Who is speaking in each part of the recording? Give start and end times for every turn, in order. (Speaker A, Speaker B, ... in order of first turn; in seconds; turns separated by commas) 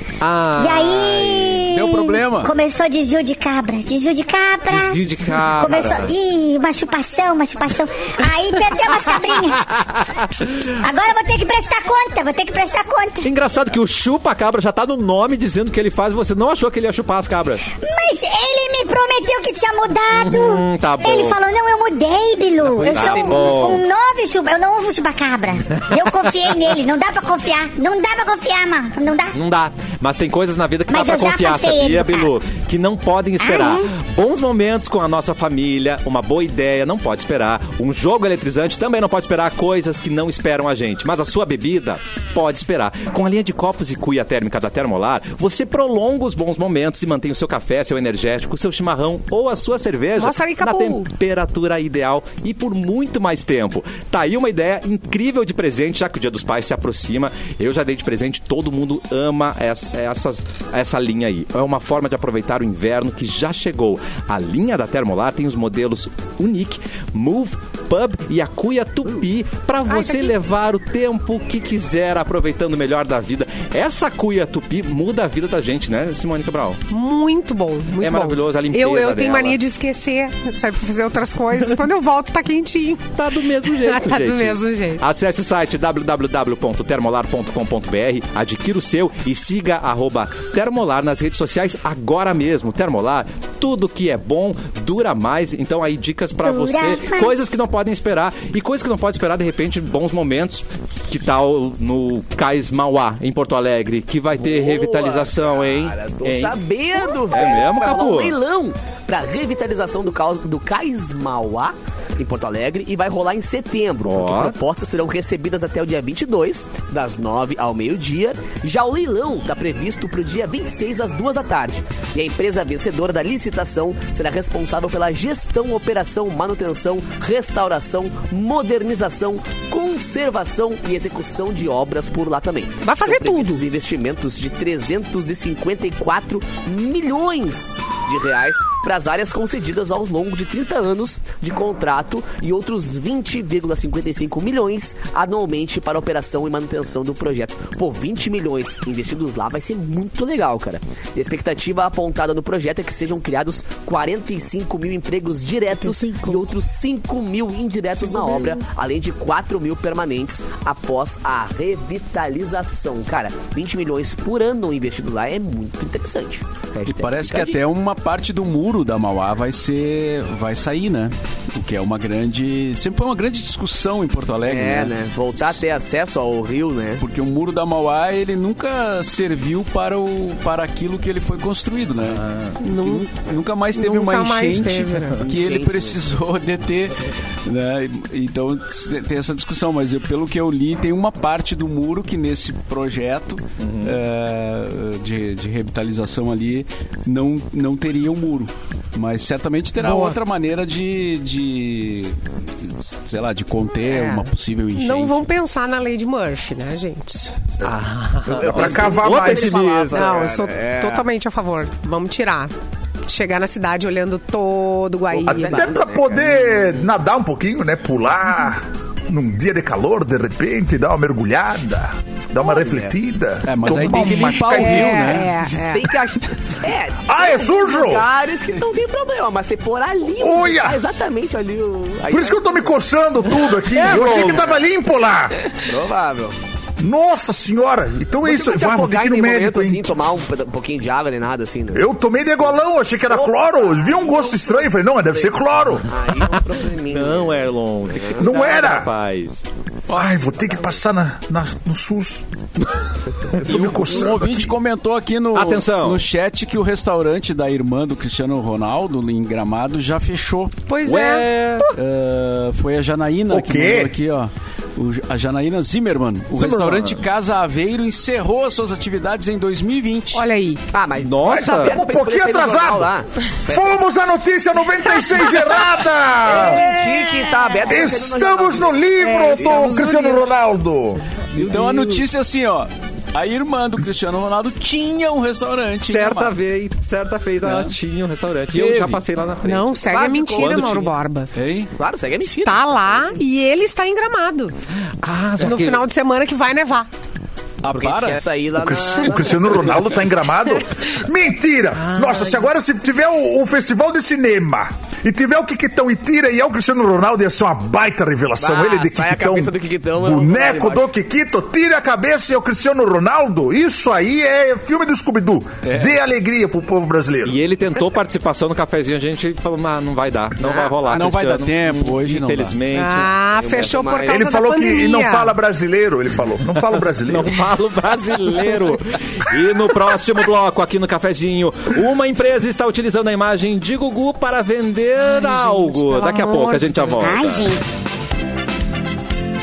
Speaker A: 0.2-1.7, Speaker B: 0.6-9.8, Speaker C: 1.7-2.5, Speaker A: 4.7-6.1, Speaker A: 9.6-10.5, Speaker B: 10.7-13.3, Speaker A: 13.2-17.6, Speaker B: 17.8-29.3, Speaker A: 20.1-21.4, Speaker A: 22.7-23.8, Speaker D: 22.8-23.5, Speaker A: 25.8-26.1, Speaker A: 29.3-76.8, Speaker B: 30.9-32.3, Speaker B: 33.4-33.9, Speaker E: 50.2-51.1, Speaker E: 69.9-70.3, Speaker E: 76.9-83.1, Speaker A: 78.0-79.6, Speaker A: 83.2-106.6, Speaker E: 83.7-85.0, Speaker B: 96.4-97.3, Speaker D: 104.4-167.6, Speaker A: 107.1-108.4, Speaker A: 114.0-114.6, Speaker E: 132.8-133.7, Speaker E: 155.8-156.4, Speaker E: 158.1-158.6, Speaker C: 166.9-175.6, Speaker D: 174.4-177.0, Speaker C: 177.0-205.3, Speaker A: 182.1-182.6, Speaker E: 182.6-183.1, Speaker E: 183.8-185.2, Speaker D: 185.2-186.0, Speaker A: 193.6-194.0, Speaker E: 203.9-207.3, Speaker A: 207.6-210.1, Speaker D: 208.3-211.1, Speaker F: 208.4-209.7, Speaker E: 209.9-212.5, Speaker E: 213.1-215.7, Speaker F: 215.3-225.2, Speaker D: 215.3-216.8, Speaker C: 223.4-225.5, Speaker E: 224.5-225.9, Speaker D: 225.5-232.8, Speaker F: 227.1-228.1, Speaker F: 230.2-230.8, Speaker F: 232.1-235.4, Speaker A: 233.7-234.5, Speaker D: 233.8-234.6, Speaker D: 235.5-236.4, Speaker F: 236.8-239.9, Speaker D: 238.2-241.8, Speaker F: 241.7-245.9, Speaker D: 243.1-248.2, Speaker A: 246.2-249.5, Speaker F: 248.2-248.9, Speaker C: 249.9-250.5, Speaker F: 249.9-252.6, Speaker F: 253.3-254.5, Speaker C: 253.4-260.5, Speaker A: 255.3-256.1, Speaker E: 260.7-261.3, Speaker A: 260.9-261.7, Speaker C: 261.7-270.2, Speaker F: 263.3-263.9, Speaker A: 266.3-267.1, Speaker E: 270.1-270.6, Speaker D: 270.7-273.6, Speaker A: 271.0-271.8, Speaker F: 271.3-272.9, Speaker F: 273.5-276.7, Speaker D: 276.2-278.8, Speaker E: 276.4-277.8, Speaker F: 277.7-281.0, Speaker E: 279.0-280.2, Speaker A: 281.3-282.1, Speaker C: 281.3-286.4, Speaker A: 285.9-289.8, Speaker C: 287.4-287.7, Speaker C: 288.5-289.0, Speaker E: 289.4-291.3, Speaker D: 289.8-290.9, Speaker A: 290.4-290.9, Speaker C: 291.3-291.7, Speaker D: 291.8-293.2, Speaker E: 292.3-294.5, Speaker A: 295.0-295.9, Speaker E: 295.4-296.9, Speaker C: 297.6-298.2, Speaker D: 297.7-300.0, Speaker F: 298.5-317.4, Speaker A: 301.8-302.5, Speaker D: 308.4-310.9, Speaker C: 315.6-316.0, Speaker A: 317.2-323.1, Speaker D: 320.4-321.0, Speaker C: 320.9-322.6, Speaker E: 322.7-325.4, Speaker D: 323.4-324.3, Speaker F: 324.1-327.3, Speaker A: 327.1-337.6, Speaker E: 335.1-337.1, Speaker B: 337.0-337.6